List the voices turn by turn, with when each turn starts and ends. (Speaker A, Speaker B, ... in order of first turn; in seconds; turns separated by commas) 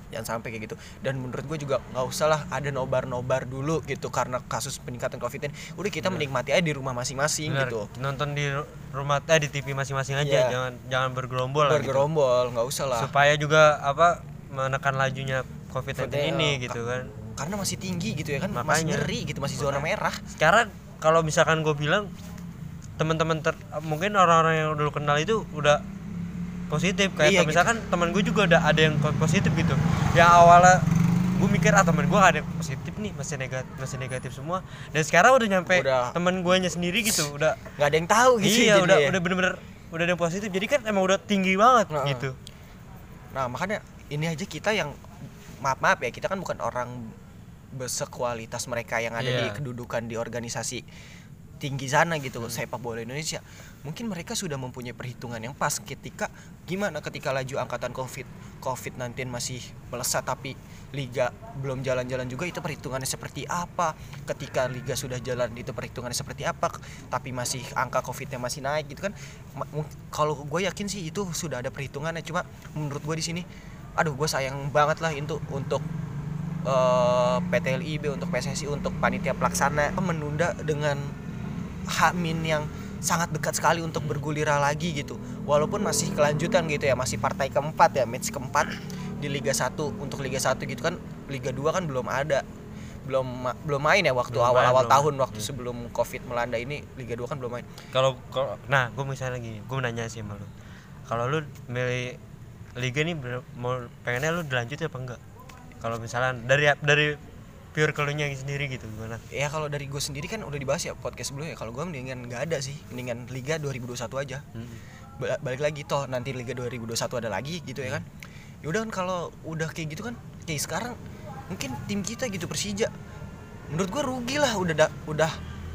Speaker A: 0.1-7.9, Speaker B: 6.0-6.3, Speaker B: 7.5-12.1, Speaker A: 10.2-10.6, Speaker A: 11.6-13.1, Speaker B: 12.9-17.1, Speaker A: 16.0-16.8, Speaker A: 17.4-20.2, Speaker B: 18.5-22.1, Speaker B: 23.0-25.8, Speaker B: 26.7-37.6, Speaker A: 27.2-27.7, Speaker A: 35.7-36.2, Speaker A: 37.8-39.1, Speaker B: 38.4-42.4, Speaker A: 41.9-42.3, Speaker A: 43.3-45.0, Speaker A: 45.6-47.1, Speaker A: 47.7-50.8, Speaker B: 49.2-49.6, Speaker A: 51.6-73.5, Speaker A: 74.0-75.8, Speaker A: 76.7-81.1, Speaker A: 81.9-92.4, Speaker A: 93.1-97.7, Speaker B: 94.3-95.5, Speaker B: 97.9-100.5, Speaker B: 101.1-102.2, Speaker B: 102.8-105.2, Speaker B: 105.8-107.2, Speaker B: 107.7-109.2, Speaker A: 109.3-114.4, Speaker B: 114.5-114.8, Speaker A: 115.2-118.1, Speaker A: 118.6-121.0, Speaker A: 121.5-122.9, Speaker A: 123.7-125.3